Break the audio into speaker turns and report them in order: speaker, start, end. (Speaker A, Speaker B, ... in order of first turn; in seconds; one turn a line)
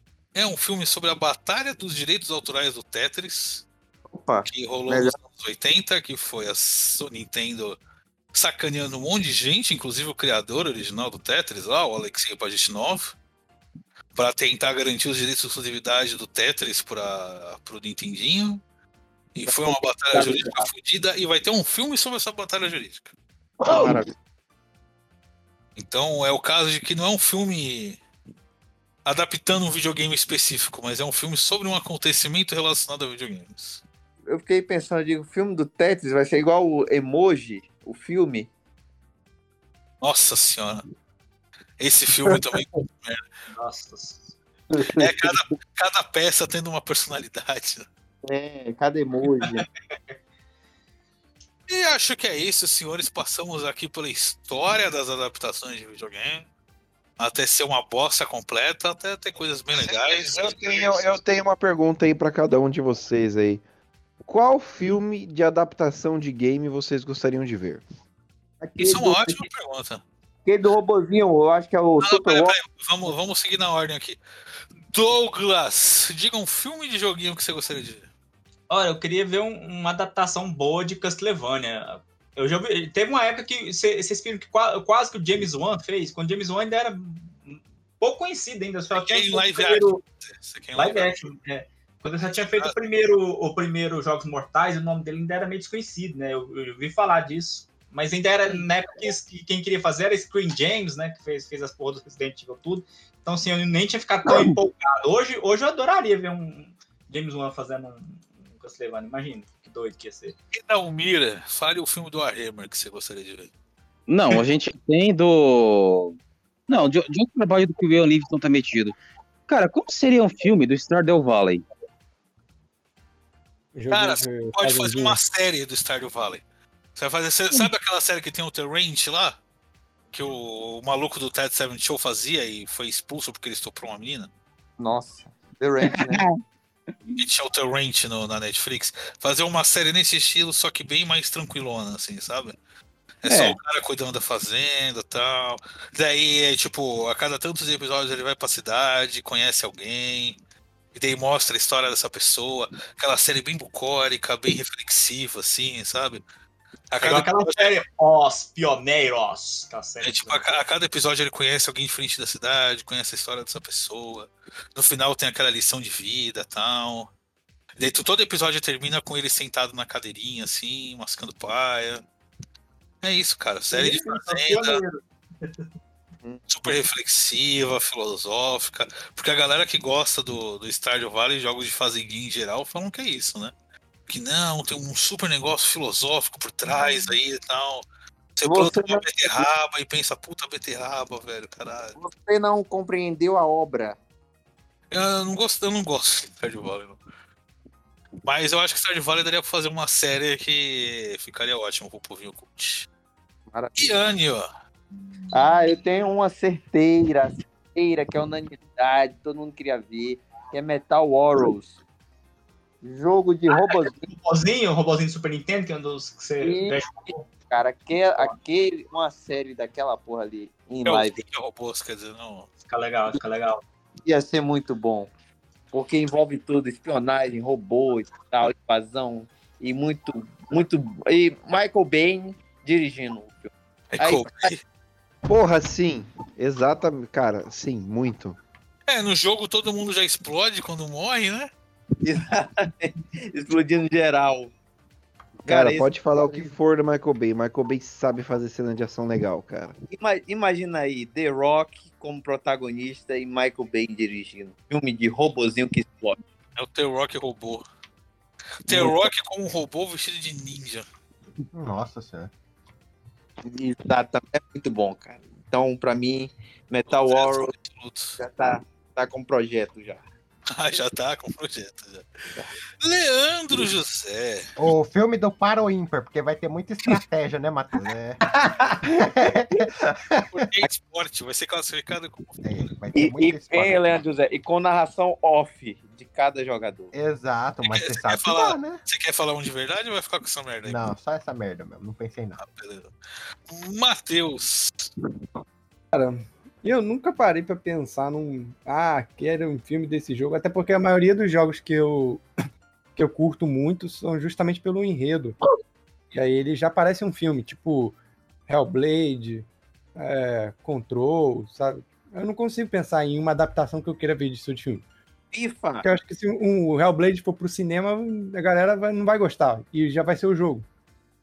Speaker A: 0.3-3.6
Speaker B: 4.1-5.1
Speaker A: 4.5-7.8
Speaker A: 8.3-13.2
Speaker A: 14.2-18.6
Speaker A: 19.4-23.1
Speaker B: 19.5-20.7
Speaker B: 23.7-24.1
Speaker A: 25.8-28.0
Speaker A: 29.1-33.8
Speaker B: 34.3-38.5
Speaker A: 40.0-40.8
Speaker A: 41.8-43.2
Speaker C: 43.5-44.3
Speaker A: 45.0-47.9
Speaker B: 48.2-49.7
Speaker C: 49.4-50.2
Speaker A: 51.7-56.5
Speaker A: 57.2-61.1
Speaker D: 59.8-63.6
Speaker D: 64.2-67.8
Speaker B: 68.6-69.5
Speaker A: 68.8-70.0
Speaker B: 70.5-72.6
Speaker A: 72.0-74.2
Speaker A: 74.9-78.1
Speaker C: 78.7-90.0
Speaker A: 88.9-91.3
Speaker C: 90.8-110.3
Speaker E: 104.3-104.5
Speaker A: 110.5-113.5
Speaker E: 114.1-116.2
Speaker E: 116.7-119.0
Speaker E: 119.5-121.7
Speaker F: 123.8-125.2
Speaker A: 123.9-126.4
Speaker A: 127.0-129.4
Speaker A: 130.1-134.3
Speaker B: 134.8-136.2
Speaker E: 135.8-136.4
Speaker A: 137.2-142.6
Speaker A: 143.2-150.4
Speaker E: 143.2-143.6
Speaker A: 150.9-156.2
Speaker A: 156.9-157.7
Speaker C: 157.0-160.4
Speaker A: 160.0-167.1
Speaker A: 167.8-172.0
Speaker A: 173.0-174.8
Speaker C: 173.7-175.7
Speaker A: 176.5-183.5
Speaker A: 184.1-192.0
Speaker B: 186.7-187.1
Speaker B: 188.5-189.5
Speaker B: 192.0-194.0
Speaker A: 194.9-197.0
Speaker A: 198.2-202.9
Speaker B: 203.5-204.1
Speaker A: 203.8-204.5
Speaker B: 205.3-211.8
Speaker B: 212.8-214.1
Speaker C: 213.5-217.3
Speaker B: 216.4-216.8
Speaker B: 217.5-221.2
Speaker A: 220.8-222.5
Speaker C: 222.7-223.6
Speaker B: 224.1-225.1
Speaker B: 225.7-234.5
Speaker A: 233.9-234.6
Speaker D: 235.3-238.4
Speaker A: 238.9-241.5
Speaker B: 242.0-244.5
Speaker B: 245.4-246.5
Speaker D: 245.4-249.8
Speaker B: 249.9-256.2
Speaker A: 256.6-257.6
Speaker A: 258.6-260.9
Speaker B: 258.7-259.0
Speaker G: 261.5-262.3
Speaker B: 263.4-267.5
Speaker A: 266.9-268.2
Speaker B: 268.2-270.0
Speaker A: 270.5-272.1
Speaker A: 272.8-274.5
Speaker G: 274.6-280.3
Speaker A: 280.3-282.4
Speaker G: 282.4-284.0
Speaker B: 282.9-286.9
Speaker G: 286.9-288.8
Speaker A: 287.7-290.9
Speaker G: 290.6-292.4
Speaker A: 292.4-292.9
Speaker A: 293.5-294.9
Speaker F: 295.9-302.2
Speaker F: 303.0-305.4
Speaker F: 306.1-307.9
Speaker F: 308.5-314.8
Speaker B: 315.3-315.9
Speaker F: 315.8-320.7